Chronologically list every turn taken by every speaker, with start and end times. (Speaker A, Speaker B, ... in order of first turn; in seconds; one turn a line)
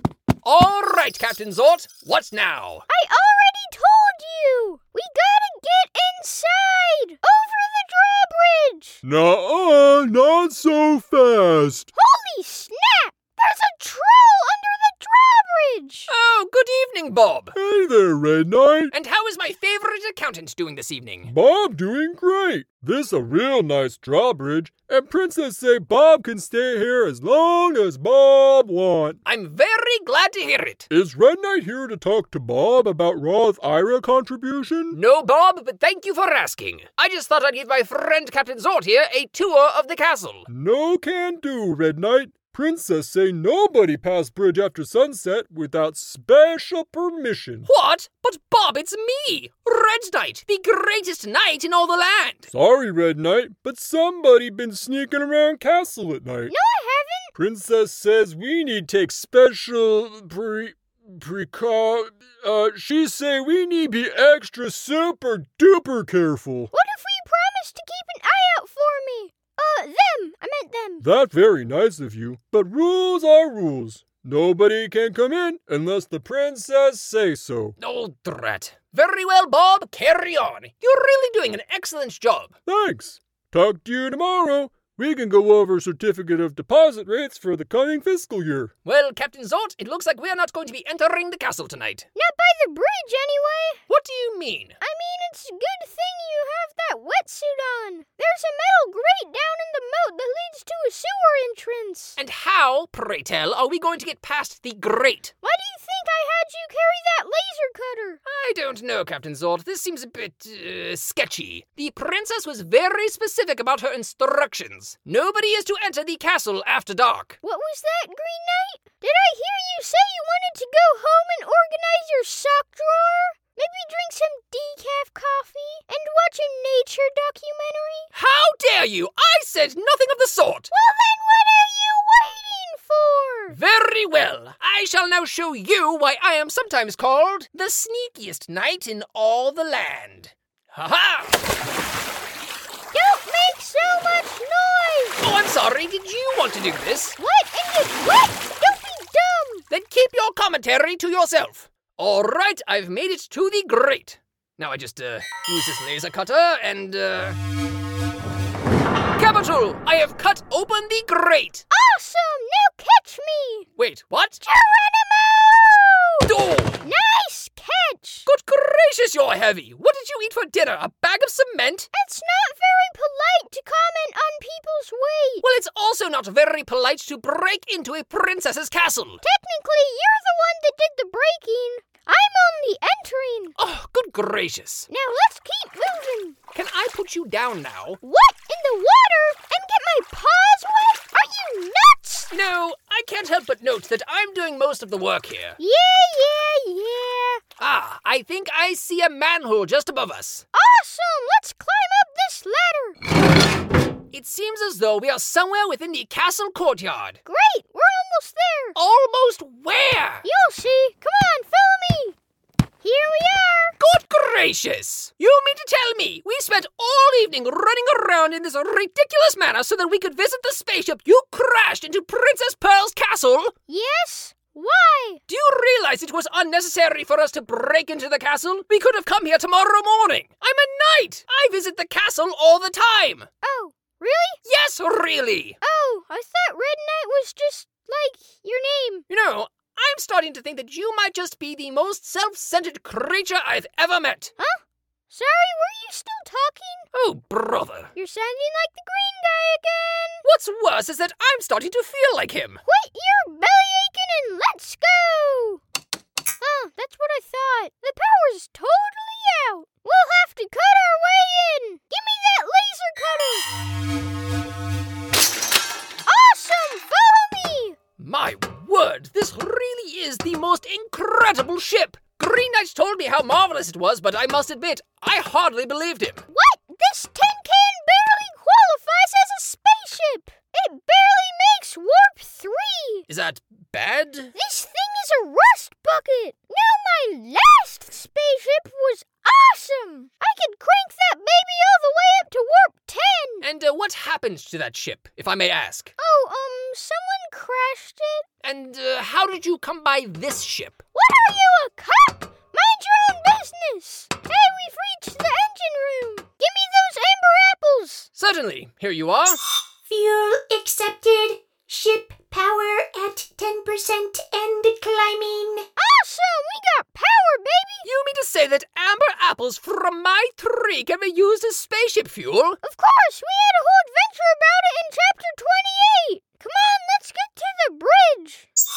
Speaker A: 0.4-2.9
Speaker B: 2.9-9.0
Speaker C: 9.0-11.9
Speaker B: 11.9-16.1
Speaker A: 16.1-17.5
Speaker C: 17.5-18.9
Speaker A: 18.9-21.3
Speaker C: 21.2-29.2
Speaker A: 29.2-30.9
Speaker C: 30.9-35.0
Speaker A: 34.9-40.5
Speaker C: 40.5-47.7
Speaker A: 47.6-52.5
Speaker C: 52.5-56.5
Speaker B: 56.5-57.3
Speaker C: 57.4-66.7
Speaker B: 66.7-71.0
Speaker C: 71.0-77.8
Speaker A: 77.8-82.5
Speaker C: 82.7-88.7
Speaker A: 88.8-92.0
Speaker B: 92.2-93.8
Speaker A: 93.9-94.8
Speaker B: 94.8-102.2
Speaker A: 102.2-105.3
Speaker B: 105.4-108.2
Speaker A: 108.2-117.4
Speaker B: 117.4-128.1
Speaker A: 128.1-130.7
Speaker B: 130.7-133.6
Speaker A: 133.5-141.4
Speaker B: 142.9-145.2
Speaker A: 145.2-147.2
Speaker B: 147.2-149.6
Speaker A: 149.7-157.4
Speaker A: 159.2-161.7
Speaker B: 161.7-163.7
Speaker A: 163.8-164.4
Speaker B: 164.4-168.3
Speaker A: 166.2-166.9
Speaker A: 168.2-171.9
Speaker B: 171.9-175.5
Speaker A: 175.4-179.2
Speaker B: 179.2-183.6
Speaker A: 183.6-184.9
Speaker B: 184.9-186.4
Speaker A: 186.5-188.0
Speaker B: 188.0-192.3
Speaker A: 192.3-195.6
Speaker B: 195.6-197.4
Speaker A: 197.6-200.5
Speaker B: 200.5-203.0
Speaker A: 204.1-207.2
Speaker B: 207.2-208.8
Speaker A: 208.8-210.2
Speaker B: 210.2-212.2
Speaker B: 212.8-213.8
Speaker A: 213.8-223.5
Speaker B: 223.7-225.2
Speaker A: 225.3-233.3
Speaker B: 233.4-234.4
Speaker A: 234.4-235.6
Speaker B: 235.6-239.0
Speaker A: 239.1-244.3
Speaker B: 244.4-246.9
Speaker A: 246.9-247.9
Speaker B: 247.9-250.2
Speaker A: 250.2-252.6
Speaker B: 252.6-255.6
Speaker B: 256.4-263.5
Speaker B: 266.1-267.8
Speaker A: 268.0-276.2
Speaker B: 276.3-283.1
Speaker A: 283.1-284.3
Speaker B: 284.4-293.5
Speaker A: 293.4-295.9
Speaker B: 296.0-298.2
Speaker A: 298.4-300.8
Speaker B: 300.9-308.1
Speaker A: 308.2-309.4
Speaker D: 309.9-315.6
Speaker B: 315.8-317.9
Speaker A: 317.9-322.6
Speaker B: 322.6-328.5